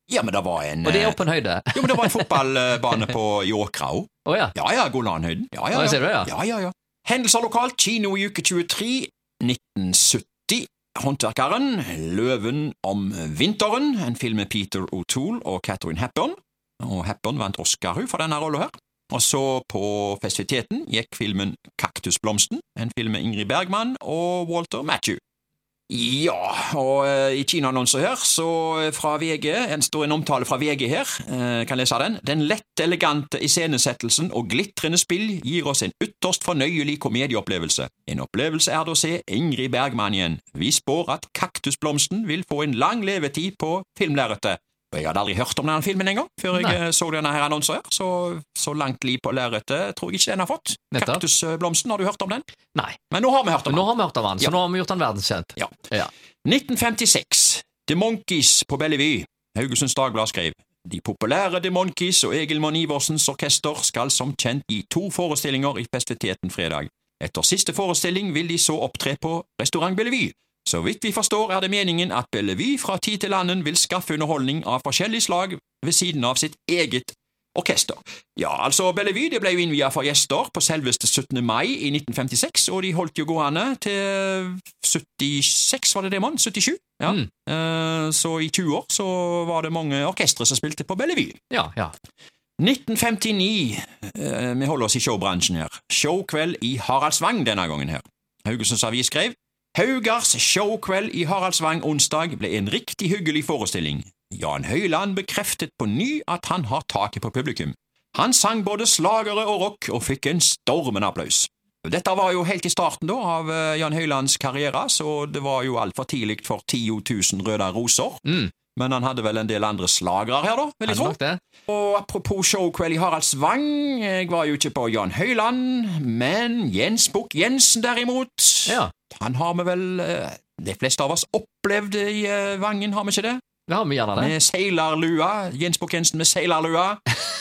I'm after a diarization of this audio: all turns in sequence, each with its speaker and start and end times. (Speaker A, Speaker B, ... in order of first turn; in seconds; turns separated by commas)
Speaker A: 0.1-1.2, Speaker B: 0.8-2.3, Speaker A: 1.7-25.2, Speaker B: 4.2-4.5, Speaker B: 5.7-6.3, Speaker A: 25.9-52.4, Speaker B: 50.9-51.2, Speaker A: 53.1-53.9, Speaker B: 53.7-56.1, Speaker A: 56.4-91.4, Speaker B: 91.5-91.9, Speaker A: 92.6-133.4, Speaker B: 118.2-118.5, Speaker B: 120.8-121.4, Speaker B: 133.7-134.3, Speaker A: 134.2-137.0